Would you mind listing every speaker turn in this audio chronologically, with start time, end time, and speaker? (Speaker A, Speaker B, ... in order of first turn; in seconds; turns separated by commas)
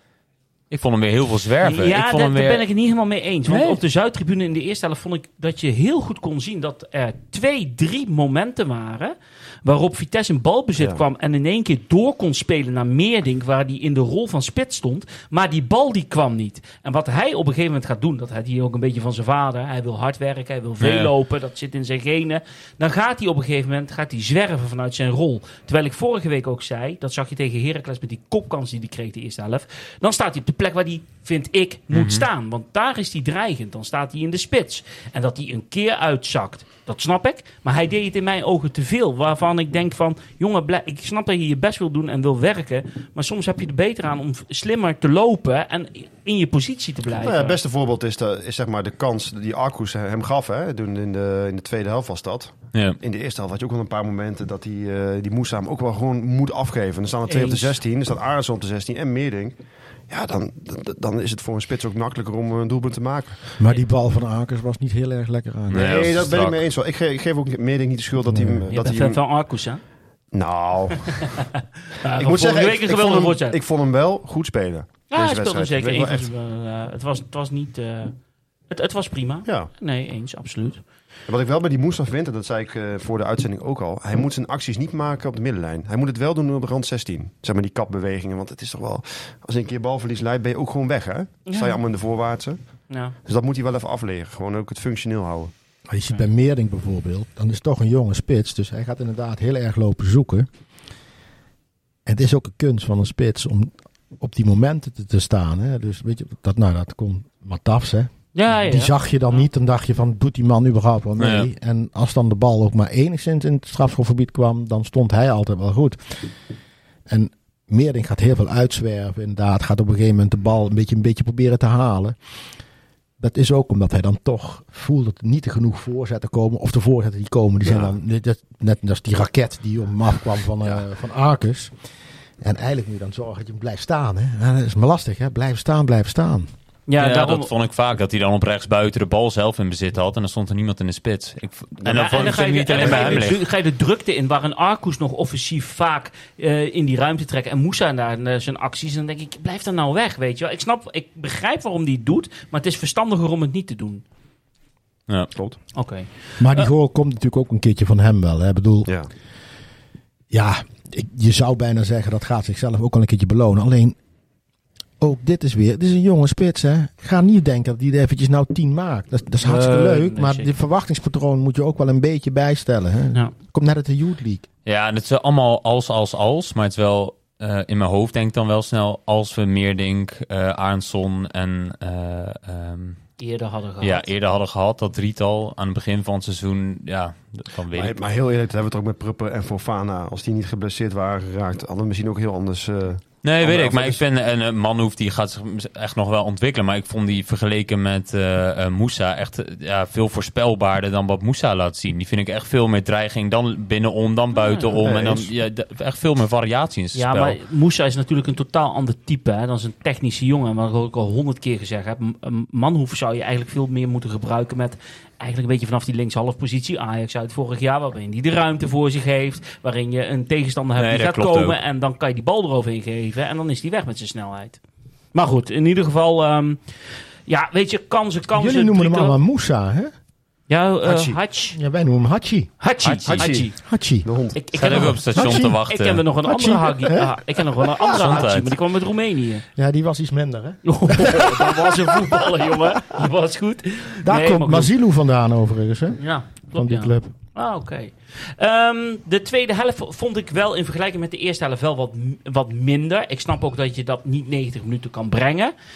Speaker A: 0.7-2.6, Speaker B: 1.6-47.6, Speaker A: 3.5-3.8, Speaker C: 10.8-11.0, Speaker A: 20.8-21.1, Speaker A: 31.9-32.2, Speaker C: 47.1-63.5, Speaker A: 52.7-53.0, Speaker B: 57.2-57.7, Speaker D: 63.6-66.2, Speaker A: 65.7-66.6, Speaker C: 65.7-69.2, Speaker D: 68.3-68.7, Speaker B: 68.7-70.3, Speaker C: 70.3-71.5, Speaker B: 71.9-73.6, Speaker C: 72.1-76.3, Speaker B: 75.1-78.2, Speaker B: 78.7-80.8, Speaker C: 79.4-79.7, Speaker C: 81.3-95.5, Speaker B: 91.5-91.8, Speaker B: 92.9-93.1, Speaker D: 95.9-100.5, Speaker D: 102.0-116.3, Speaker B: 108.3-108.9, Speaker A: 111.2-111.5, Speaker D: 117.1-122.2, Speaker D: 123.2-131.8, Speaker D: 132.4-136.5, Speaker B: 136.9-137.5, Speaker A: 137.0-143.4, Speaker B: 141.8-154.0, Speaker C: 142.8-143.2, Speaker C: 155.3-155.6, Speaker B: 155.7-156.7, Speaker D: 156.4-159.0, Speaker C: 158.8-159.1, Speaker D: 160.3-164.0, Speaker D: 165.0-174.4, Speaker B: 169.4-170.5, Speaker A: 174.6-183.2, Speaker B: 183.2-184.1, Speaker A: 183.8-187.9, Speaker C: 187.7-194.0, Speaker A: 193.2-207.4, Speaker B: 204.3-204.8, Speaker C: 204.8-205.3, Speaker B: 206.9-224.6, Speaker A: 220.8-221.6, Speaker B: 225.1-229.2, Speaker D: 228.3-229.9, Speaker B: 230.5-231.6, Speaker C: 230.8-231.2, Speaker D: 231.5-232.5, Speaker B: 232.6-233.6, Speaker A: 232.8-233.5, Speaker C: 233.0-234.4, Speaker D: 233.6-235.6, Speaker B: 234.3-239.4, Speaker A: 234.6-236.0, Speaker D: 236.2-237.2, Speaker A: 237.9-238.6, Speaker D: 239.6-242.2, Speaker B: 240.6-244.7, Speaker D: 244.0-247.1, Speaker B: 246.0-255.5